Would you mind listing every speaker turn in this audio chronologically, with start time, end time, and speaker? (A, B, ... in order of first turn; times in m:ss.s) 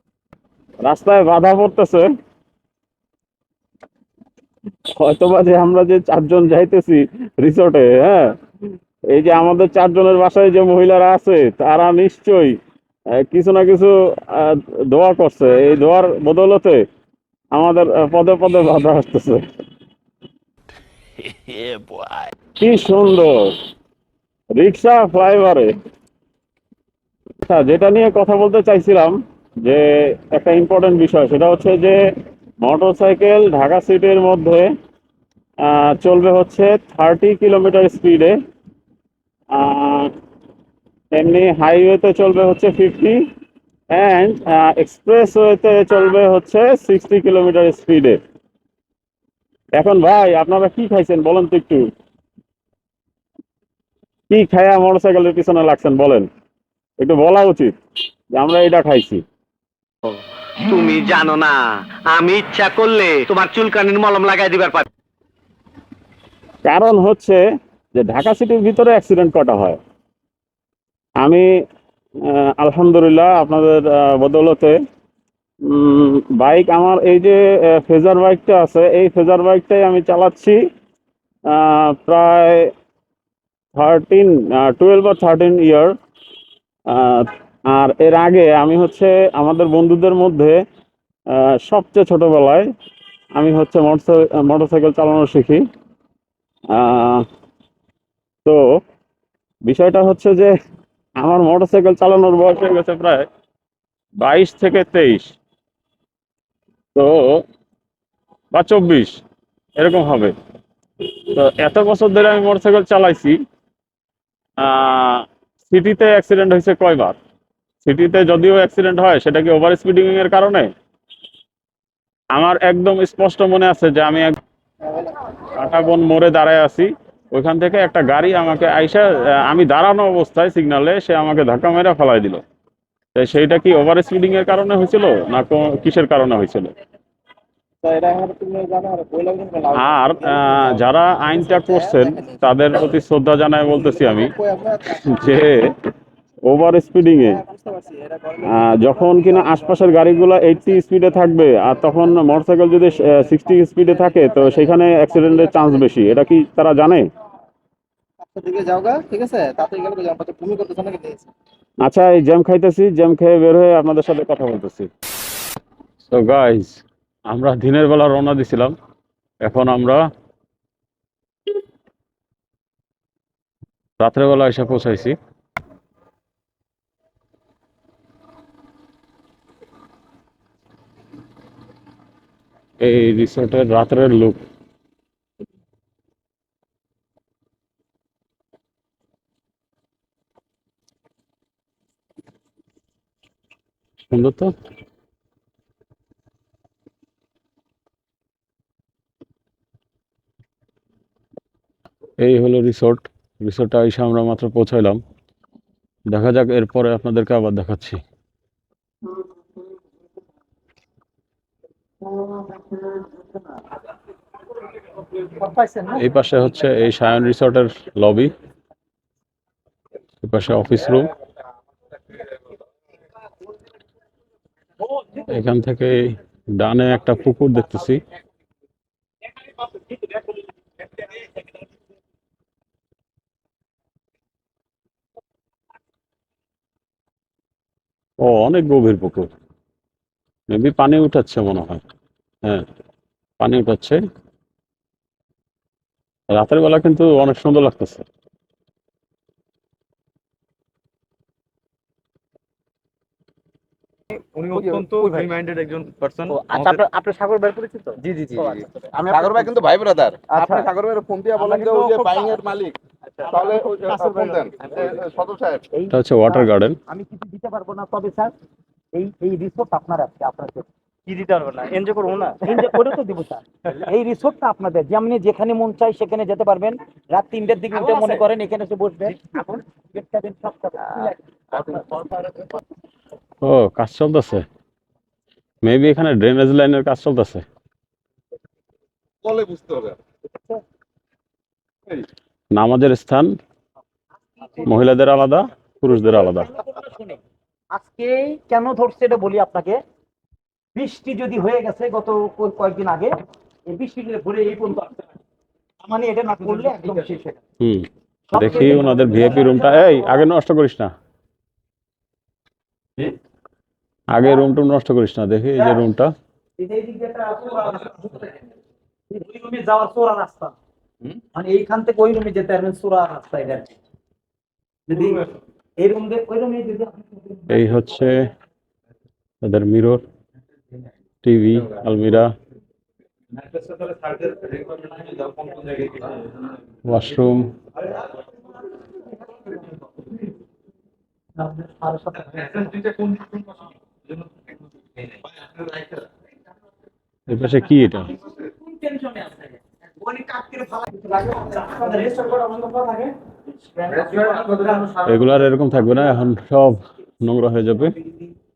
0:00.8-0:02.1 A
0:04.9-0:08.3 A
0:09.1-0:12.6 A
0:13.2-0:16.8 A
0:17.5-0:19.4 A
0:22.6-0:23.5 A
0:24.5-0:25.8 A
0:27.4-0:32.0 A
0:32.6-0:34.7 A
0:35.6-0:38.4 A
0:39.6-0:40.1 A
0:41.1-0:43.2 A
0:43.9-0:48.2 A
0:49.8-0:51.9 A
0:54.3-0:56.3 A
0:57.0-0:57.8 A
0:58.4-0:59.2 A
1:00.0-1:01.6 B
1:02.1-1:04.8 B
1:06.6-1:07.4 A
1:08.0-1:09.8 A
1:11.2-1:11.5 A
1:12.3-1:14.8 A
1:15.7-1:20.6 A
1:21.5-1:22.7 A
1:23.8-1:25.9 A
1:26.9-1:30.6 A
1:31.3-1:32.7 A
1:33.4-1:35.6 A
1:36.7-1:37.2 A
1:39.6-1:40.5 A
1:41.2-1:43.2 A
1:44.2-1:45.3 A
1:47.0-1:47.4 A
1:48.5-1:49.2 A
1:49.8-1:50.3 A
1:51.3-1:53.4 A
1:54.6-1:57.2 A
1:57.8-2:00.7 A
2:02.3-2:04.4 A
2:05.6-2:12.4 A
2:13.2-2:16.7 A
2:17.8-2:22.8 C
2:19.7-2:24.4 A
2:23.6-2:25.4 C
2:25.0-2:25.8 A
2:26.4-2:27.4 A
2:27.2-2:29.8 C
2:28.5-2:37.1 A
2:34.0-2:35.9 C
2:38.2-2:41.3 C
2:41.8-2:44.9 A
2:46.1-2:48.8 A
2:49.4-2:50.0 A
2:54.0-2:55.2 A
3:02.8-3:04.4 A
3:14.1-3:14.5 A
3:22.2-3:25.0 A
3:26.1-3:28.0 A
3:35.2-3:36.0 D
3:36.0-3:38.3 A
3:40.2-3:41.1 A
3:45.2-3:48.0 A
3:58.2-3:59.3 A
4:00.5-4:01.8 A
4:03.4-4:04.0 A
4:06.3-4:08.0 A
4:14.4-4:17.9 E
4:14.5-4:15.2 C
4:14.9-4:15.3 D
4:16.3-4:17.5 D
4:18.0-4:19.5 D
4:18.4-4:22.8 C
4:20.3-4:20.7 D
4:21.4-4:22.1 D
4:23.3-4:25.6 C
4:23.9-4:24.8 D
4:25.7-4:28.3 D
4:25.9-4:26.8 A
4:28.9-4:30.7 D
4:31.1-4:32.4 E
4:32.4-4:42.1 D
4:43.4-4:44.4 A
4:45.6-4:47.4 A
4:49.2-4:50.0 C
4:52.5-4:53.4 A
4:54.4-4:54.7 D
4:54.6-4:56.5 A
4:55.9-4:57.2 D
4:57.7-4:59.8 D
5:00.8-5:05.0 D
5:05.8-5:07.4 D
5:07.6-5:10.9 A
5:08.3-5:10.1 D
5:14.1-5:16.1 A
5:16.6-5:18.4 D
5:19.1-5:20.6 D
5:21.3-5:23.8 D
5:24.9-5:27.5 D
5:27.5-5:28.2 A
5:29.4-5:30.0 A
5:31.2-5:32.3 A
5:34.3-5:35.9 D
5:36.9-5:37.5 A
5:39.0-5:39.5 D
5:41.4-5:43.4 D
5:47.3-5:48.1 A
5:48.2-5:53.1 D
5:53.8-5:55.2 D
5:55.0-5:57.9 A